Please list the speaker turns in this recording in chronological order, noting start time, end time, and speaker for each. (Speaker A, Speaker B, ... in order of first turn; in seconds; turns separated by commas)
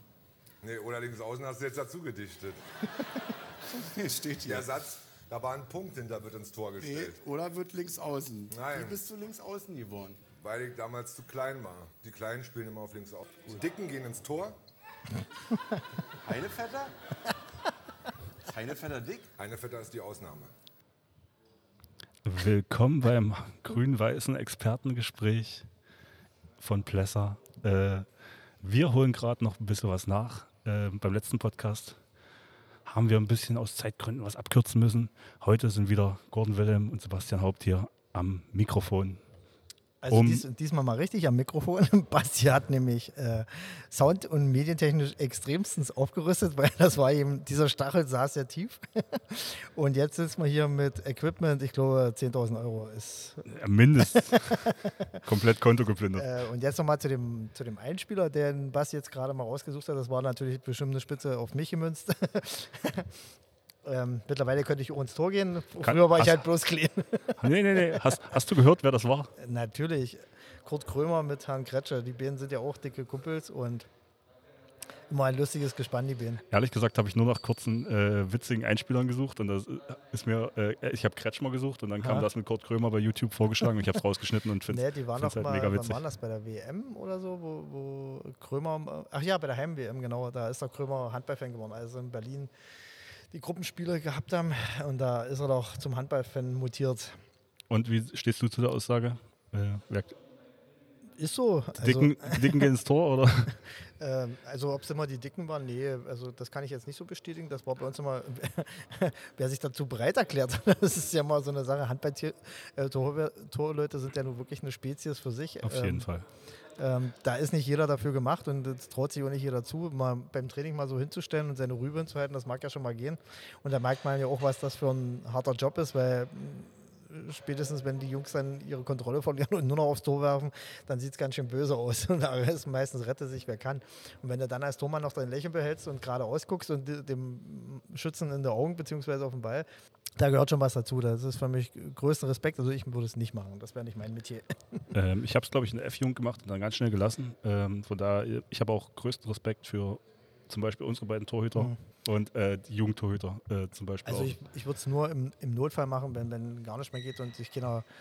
Speaker A: 0.6-2.6, Speaker B: 3.7-4.8, Speaker A: 4.4-7.2, Speaker B: 6.8-10.2, Speaker A: 8.5-9.0, Speaker A: 10.4-14.6, Speaker B: 16.2-16.9, Speaker B: 18.4-19.3, Speaker A: 19.4-20.5, Speaker C: 22.2-25.7, Speaker C: 26.6-28.1, Speaker C: 28.6-32.0, Speaker C: 32.8-39.2, Speaker D: 40.0-55.2, Speaker C: 40.1-40.4, Speaker C: 53.5-56.3, Speaker D: 56.1-63.2, Speaker D: 63.8-68.3, Speaker C: 65.8-66.5, Speaker C: 67.4-69.3, Speaker D: 69.3-73.9, Speaker D: 75.1-76.4, Speaker C: 76.5-86.0, Speaker D: 82.0-82.3, Speaker D: 84.7-97.2, Speaker C: 97.7-100.2, Speaker D: 101.2-102.7, Speaker C: 101.7-103.6, Speaker D: 103.7-116.1, Speaker C: 115.6-116.3, Speaker D: 116.8-144.9, Speaker C: 144.9-154.4, Speaker D: 154.0-157.8